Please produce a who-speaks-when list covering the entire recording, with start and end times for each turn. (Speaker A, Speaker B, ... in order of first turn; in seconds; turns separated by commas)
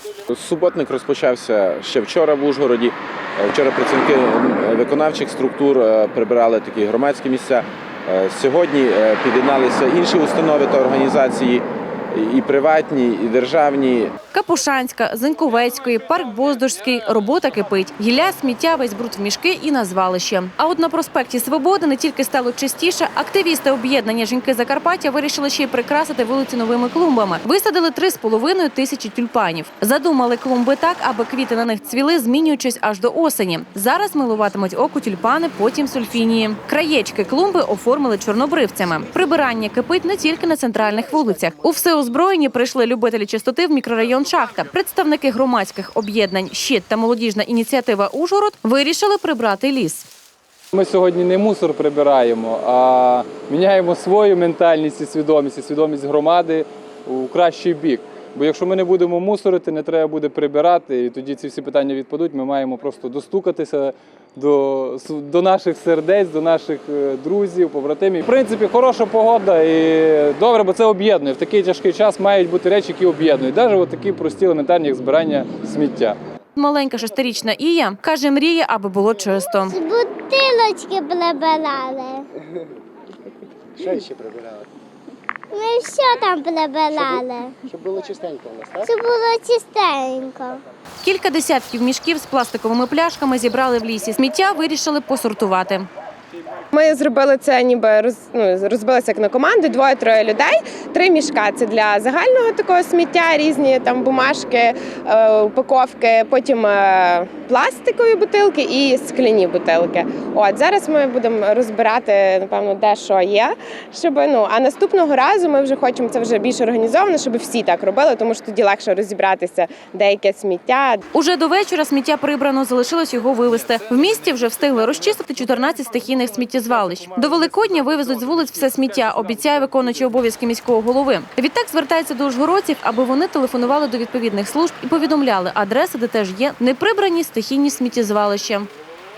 Speaker A: 0.3-14.1, Speaker B: 14.3-50.1, Speaker C: 50.7-76.2, Speaker B: 76.6-79.8, Speaker D: 79.7-82.3, Speaker E: 83.8-84.7, Speaker D: 85.5-87.5, Speaker E: 87.0-88.9, Speaker D: 88.9-90.6, Speaker B: 91.0-95.9, Speaker F: 96.7-121.0, Speaker B: 121.1-138.7